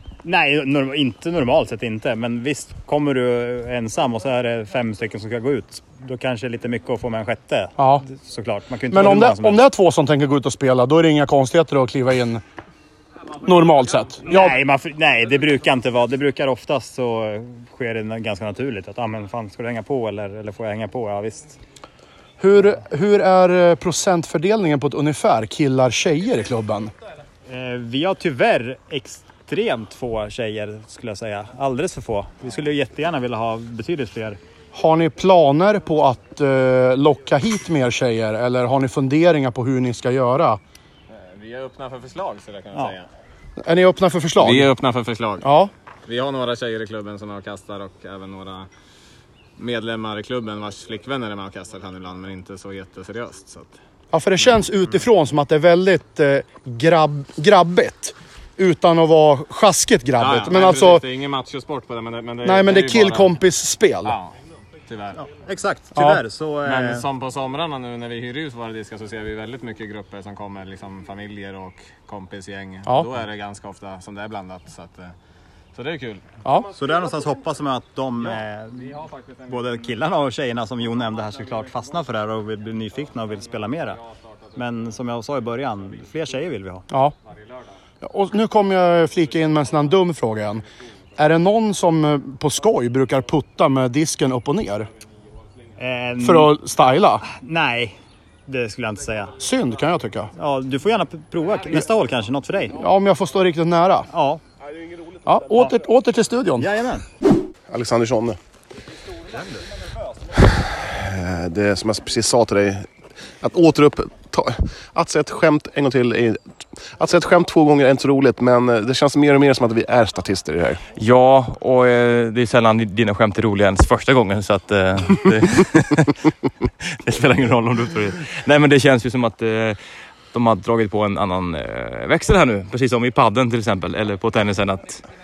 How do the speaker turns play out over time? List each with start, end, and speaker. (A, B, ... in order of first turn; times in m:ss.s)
0:00.2-0:09.6 A
0:07.8-0:08.0 B
0:08.9-0:12.4 B
0:13.4-0:14.6 B
0:14.3-0:21.6 A
0:22.4-0:26.9 B
0:27.5-0:34.4 A
0:34.7-0:40.6 B
0:41.1-0:43.1 C
0:43.6-0:44.7 B
0:44.4-0:45.5 C
0:45.4-0:45.7 B
0:46.1-0:48.7 C
0:49.6-0:53.8 C
0:54.1-1:01.0 B
1:00.2-1:03.4 C
1:02.4-1:04.2 B
1:04.0-1:04.4 C
1:04.9-1:05.2 C
1:05.2-1:07.0 A
1:06.0-1:06.2 B
1:06.6-1:15.1 C
1:12.9-1:13.1 B
1:15.7-1:16.4 C
1:16.4-1:16.7 B
1:16.8-1:18.9 A
1:18.8-1:19.6 C
1:19.5-1:24.0 A
1:24.6-1:26.8 A
1:28.0-1:30.6 B
1:31.2-1:34.9 B
1:35.8-1:36.5 A
1:36.2-1:37.2 B
1:37.2-1:39.4 A
1:39.4-1:40.3 B
1:40.4-1:42.8 A
1:42.8-1:44.1 B
1:44.1-1:44.4 A
1:45.2-1:46.7 B
1:46.6-1:47.0 A
1:47.7-1:48.4 D
1:50.3-1:52.9 D
1:53.4-2:00.8 D
2:01.0-2:06.2 E
2:06.8-2:09.8 E
2:10.3-2:15.0 E